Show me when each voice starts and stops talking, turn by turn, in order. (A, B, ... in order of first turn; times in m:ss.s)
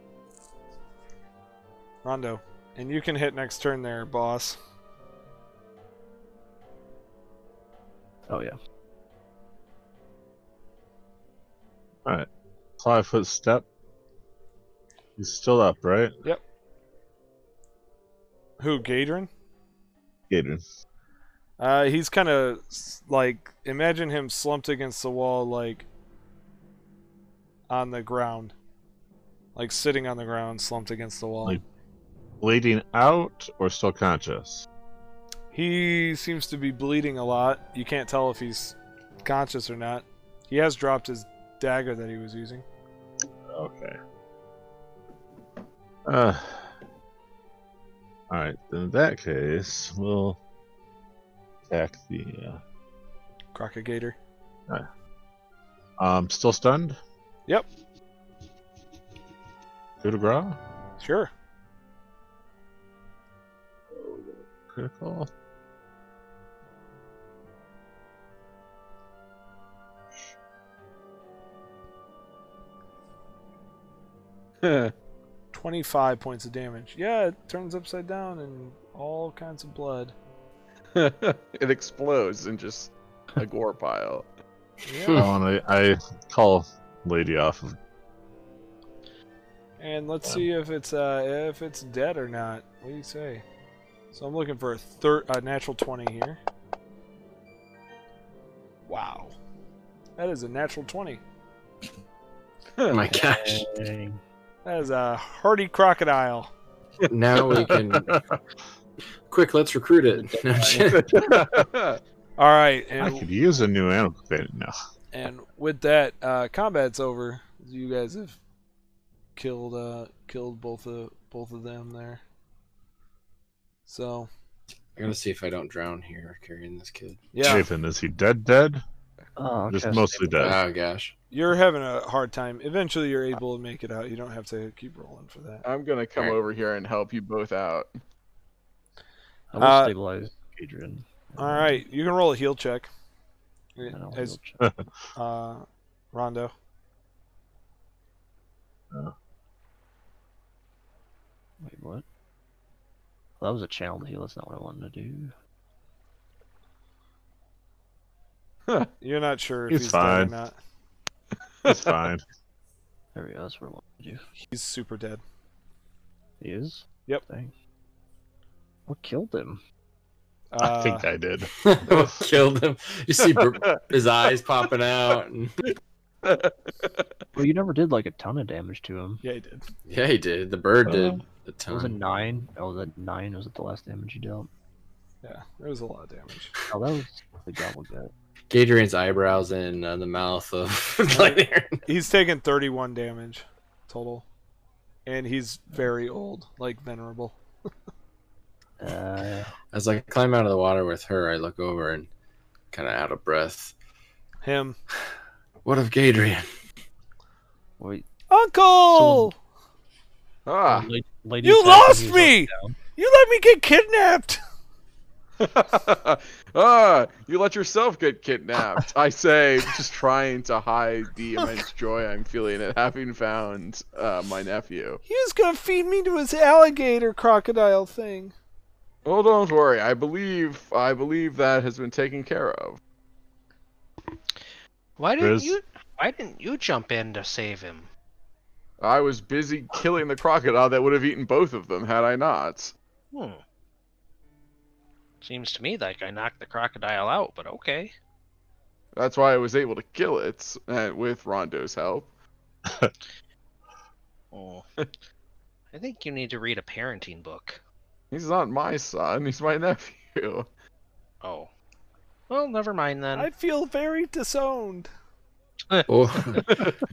0:02.0-0:04.6 A
0:08.3-0:08.6 B
0:12.8-0:13.6 C
0:15.2-0:16.2 C
0:18.6-0:19.3 A
0:20.3-0:20.6 C
0:21.6-0:25.9 A
0:27.7-0:28.5 A
0:29.6-0:31.6 A
0:32.4-0:34.7 C
0:35.5-0:42.6 A
0:43.5-0:44.0 C
0:46.1-0:46.8 C
0:48.3-0:50.4 C
0:51.7-0:52.6 C
0:53.6-0:54.2 A
0:56.0-0:57.0 C
1:00.0-1:00.6 C
1:01.0-1:01.3 A
1:04.0-1:05.3 C
1:14.6-1:14.9 D
1:15.5-1:20.2 A
1:21.0-1:24.3 D
1:24.8-1:25.2 A
1:25.0-1:25.3 E
1:25.2-1:27.8 C
1:29.8-1:33.4 A
1:34.1-1:36.4 A
1:38.9-1:39.4 A
1:40.2-1:41.2 A
1:42.9-1:43.7 E
1:43.0-1:44.2 B
1:44.6-1:46.5 A
1:47.1-1:48.2 E
1:49.3-1:51.1 E
1:50.1-1:50.9 B
1:50.7-1:52.0 D
1:51.2-1:51.5 C
1:52.4-1:53.3 A
1:53.0-1:54.7 C
1:55.1-1:58.4 A
1:59.4-2:02.2 A
2:03.9-2:04.3 A
2:05.0-2:07.3 E
2:07.3-2:07.7 A
2:07.4-2:08.8 C
2:09.4-2:10.5 B
2:09.7-2:10.6 C
2:10.4-2:11.1 E
2:11.3-2:15.7 A
2:15.6-2:18.0 D
2:19.5-2:21.8 B
2:19.6-2:19.9 A
2:21.4-2:22.9 A
2:23.8-2:24.4 A
2:23.9-2:24.6 B
2:24.6-2:24.9 C
2:25.2-2:26.5 A
2:31.6-2:32.0 B
2:33.4-2:35.3 B
2:39.0-2:40.6 A
2:39.7-2:40.4 C
2:41.6-2:41.9 D
2:41.7-2:42.2 C
2:43.2-2:44.2 B
2:44.5-2:45.2 A
2:46.4-2:47.5 B
2:48.9-2:49.6 B
2:50.5-2:51.1 A
2:50.6-2:52.1 C
2:51.6-2:55.6 E
2:53.2-2:53.9 D
2:56.2-2:57.1 D
2:57.4-2:59.2 B
2:59.2-2:59.7 A
2:59.9-3:02.0 E
3:00.9-3:01.2 C
3:01.7-3:04.5 B
3:05.2-3:06.5 A
3:06.7-3:08.1 B
3:08.5-3:11.8 E
3:11.1-3:14.2 A
3:15.1-3:17.4 A
3:18.8-3:19.5 B
3:19.7-3:22.1 E
3:22.7-3:23.8 E
3:24.4-3:24.8 A
3:25.6-3:26.5 E
3:27.8-3:28.1 B
3:28.3-3:29.4 A
3:28.9-3:29.3 B
3:30.5-3:30.9 D
3:30.7-3:32.8 B
3:31.4-3:34.4 A
3:35.4-3:45.0 D
3:45.1-3:48.3 A
3:49.0-3:52.8 D
3:55.0-3:57.9 F
3:55.2-3:55.6 C
3:58.8-4:02.7 D
4:03.1-4:03.4 F
4:05.2-4:07.9 F
4:09.0-4:12.1 D
4:12.7-4:12.9 C
4:14.3-4:14.6 F
4:15.7-4:17.6 F
4:18.1-4:20.5 D
4:21.2-4:21.5 F
4:22.3-4:23.3 F
4:23.2-4:24.9 A
4:25.7-4:26.4 F
4:25.9-4:26.4 E